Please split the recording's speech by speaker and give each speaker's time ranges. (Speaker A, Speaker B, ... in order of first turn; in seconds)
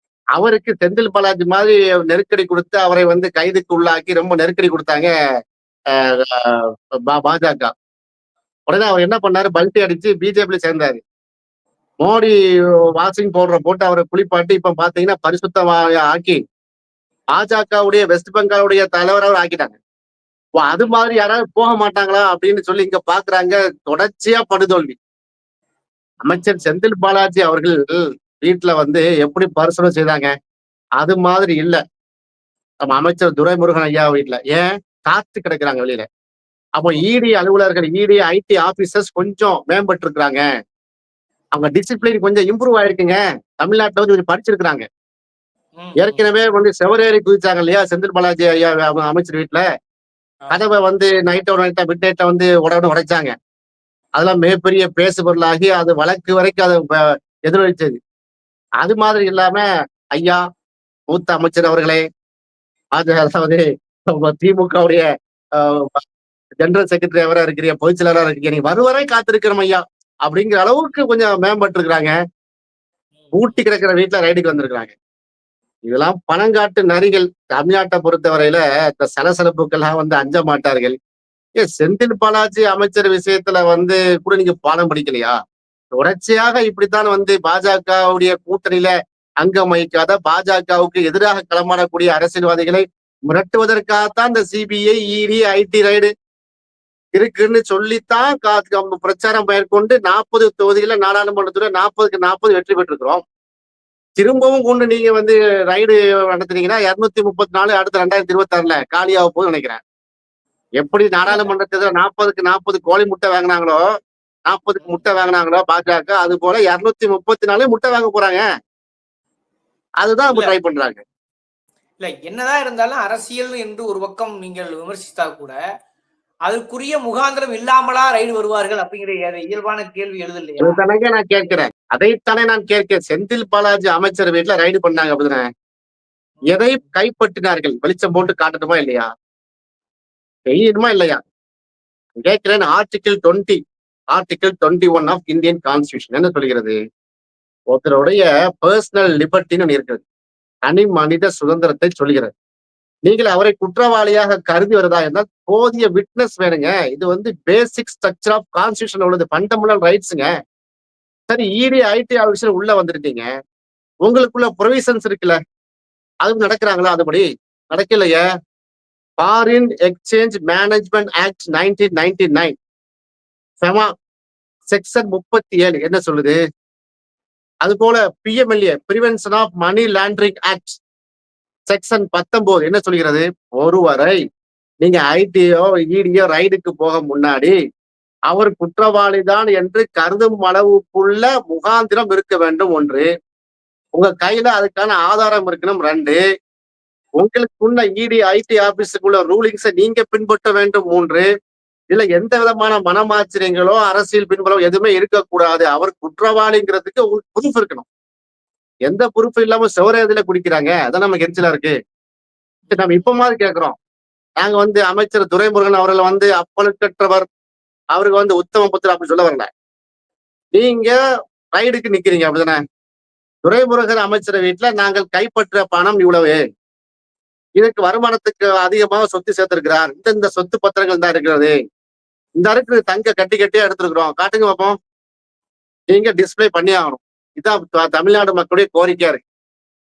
Speaker A: 0.4-5.1, 5.9-7.7, 8.7-11.0, 12.0-12.3, 12.9-16.4, 17.3-19.8, 20.6-25.0, 26.2-30.3, 31.0-31.8, 32.8-36.0, 36.8-40.4, 41.5-44.8, 46.0-49.6, 50.5-53.3, 54.2-58.0, 58.8-59.6, 61.1-62.0, 62.9-65.0, 65.6-66.0, 66.6-72.1, 73.3-74.9, 75.9-80.9, 81.6-85.3, 86.0-96.1, 97.2-103.2, 104.2-109.8, 110.8-113.8, 114.5-118.4, 120.0-121.0, 130.6-135.5, 136.5-139.1, 140.5-141.2, 142.2-143.6, 144.1-146.8, 147.7-150.0, 150.7-152.3, 153.1-160.3, 161.3-163.2, 164.0-165.4, 166.2-168.2, 169.2-172.5, 173.6-173.9, 174.7-176.4, 177.6-180.8, 181.7-184.2, 184.8-187.5, 188.3-193.1, 193.9-196.2, 197.2-201.2, 201.9-207.8, 208.9-211.7, 212.7-213.8, 214.4-217.2, 217.9-219.5, 220.5-221.0, 221.5-222.6, 223.4-226.4, 227.6-231.5, 232.4-234.8, 235.9-239.2
Speaker B: 20.6-20.9, 26.2-26.6, 45.8-46.3, 73.2-73.6, 111.2-111.5, 114.8-115.1, 120.3-120.5, 122.0-125.5, 126.4-130.8, 212.6-213.2